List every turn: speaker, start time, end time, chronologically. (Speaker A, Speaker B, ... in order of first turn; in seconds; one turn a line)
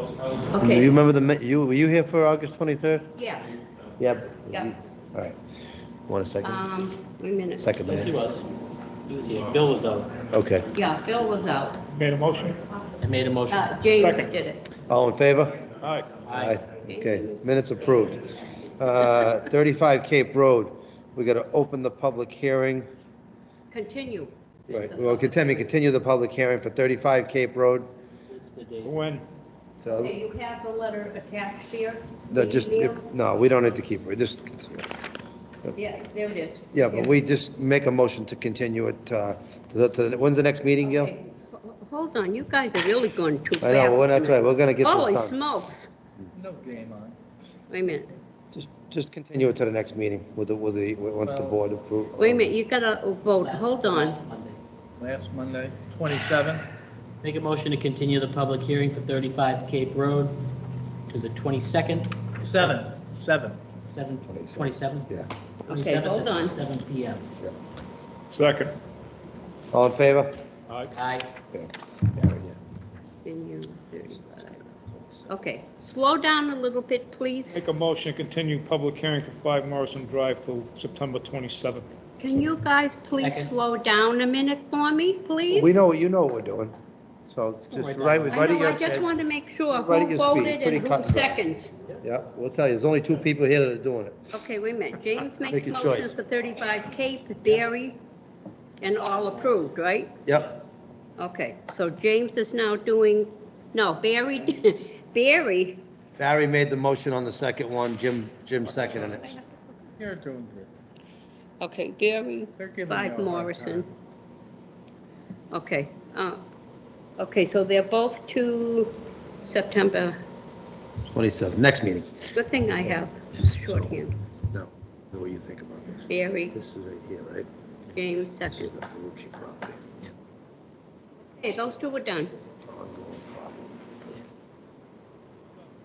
Speaker A: 0.5-0.9
Speaker B: 0.6-3.1
Speaker A: 3.2-3.6
Speaker B: 4.0-5.4
Speaker B: 6.1-6.7
Speaker A: 6.4-7.7
Speaker B: 7.6-8.2
Speaker C: 7.8-8.4
Speaker C: 9.1-10.2
Speaker B: 10.3-10.7
Speaker A: 10.7-11.8
Speaker D: 11.9-12.7
Speaker C: 13.0-13.7
Speaker A: 13.5-14.7
Speaker D: 14.0-14.3
Speaker B: 14.8-15.6
Speaker D: 15.8-16.1
Speaker C: 16.3-16.6
Speaker B: 16.3-22.9
Speaker A: 16.9-18.0
Speaker A: 23.7-25.6
Speaker B: 24.7-27.9
Speaker C: 28.3-28.9
Speaker D: 28.8-29.3
Speaker B: 29.8-30.1
Speaker A: 29.9-33.0
Speaker B: 32.3-34.9
Speaker A: 35.8-37.2
Speaker B: 36.7-41.1
Speaker A: 40.8-45.9
Speaker B: 43.6-45.4
Speaker E: 46.3-47.2
Speaker A: 47.7-48.1
Speaker B: 48.5-52.5
Speaker E: 51.2-51.6
Speaker A: 52.2-54.2
Speaker C: 53.4-54.6
Speaker E: 55.0-56.7
Speaker C: 57.2-60.5
Speaker C: 61.1-62.9
Speaker E: 62.4-63.6
Speaker C: 63.9-65.1
Speaker B: 64.3-65.3
Speaker C: 65.7-67.3
Speaker A: 65.7-66.6
Speaker D: 68.3-68.8
Speaker B: 69.7-70.3
Speaker C: 70.9-71.3
Speaker B: 71.5-72.6
Speaker A: 73.2-74.6
Speaker B: 74.3-75.5
Speaker A: 75.3-77.6
Speaker D: 77.5-82.0
Speaker A: 82.2-85.8
Speaker C: 83.2-83.5
Speaker B: 85.5-86.8
Speaker B: 87.3-89.2
Speaker C: 87.7-88.7
Speaker A: 88.3-91.8
Speaker B: 89.7-91.4
Speaker B: 92.0-94.3
Speaker A: 94.3-98.0
Speaker B: 95.4-96.2
Speaker A: 98.8-100.2
Speaker C: 99.2-99.6
Speaker B: 100.3-100.5
Speaker A: 101.2-105.8
Speaker B: 106.2-109.3
Speaker E: 108.8-109.2
Speaker E: 110.0-110.7
Speaker A: 111.6-113.9
Speaker E: 112.6-113.9
Speaker A: 115.5-116.4
Speaker A: 117.2-118.9
Speaker A: 119.5-120.2
Speaker B: 121.1-124.0
Speaker A: 122.3-124.2
Speaker B: 124.5-127.5
Speaker A: 126.1-126.5
Speaker A: 127.9-128.7
Speaker B: 128.5-129.9
Speaker A: 131.4-132.3
Speaker B: 132.6-133.8